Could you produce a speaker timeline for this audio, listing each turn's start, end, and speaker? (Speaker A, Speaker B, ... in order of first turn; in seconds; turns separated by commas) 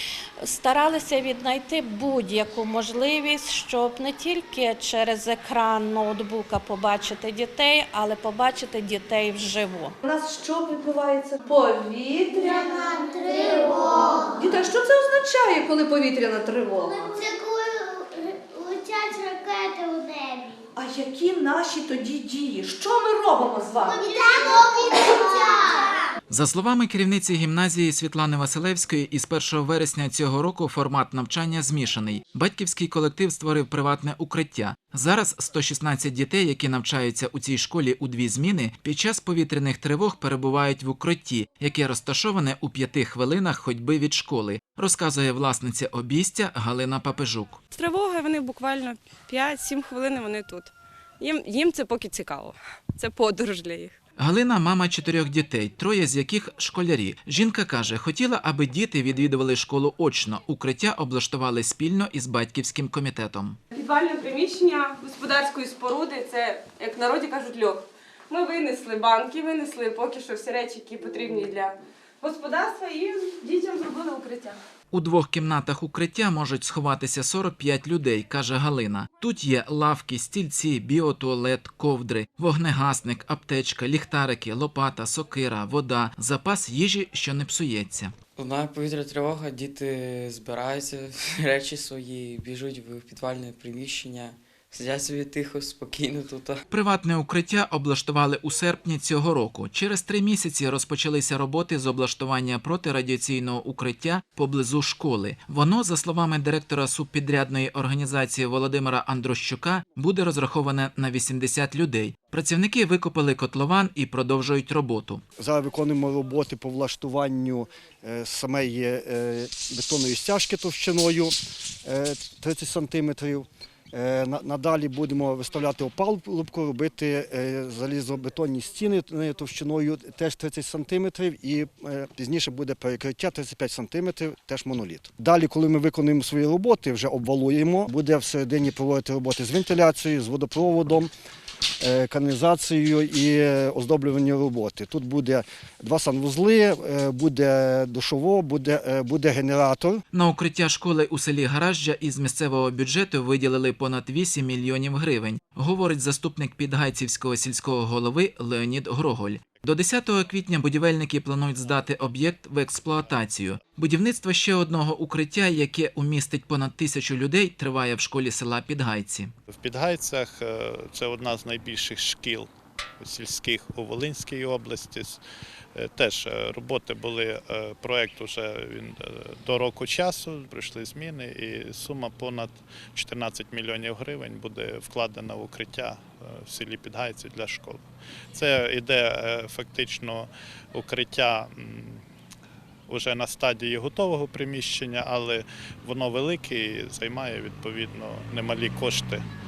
Speaker A: 0.4-9.9, Speaker B: 10.0-13.7, Speaker C: 12.4-14.5, Speaker B: 14.3-17.1, Speaker C: 16.8-20.6, Speaker B: 20.7-24.0, Speaker C: 23.8-26.1, Speaker D: 26.3-47.6, Speaker E: 47.7-54.0, Speaker D: 54.2-63.6, Speaker E: 63.7-74.6, Speaker D: 74.9-88.1, Speaker F: 88.3-96.6, Speaker D: 96.7-115.2, Speaker G: 115.4-121.3, Speaker G: 121.8-141.1, Speaker G: 141.8-150.0, Speaker D: 150.1-169.3, Speaker H: 169.5-175.2, Speaker H: 175.8-187.8, Speaker H: 188.3-192.0, Speaker H: 192.9-199.2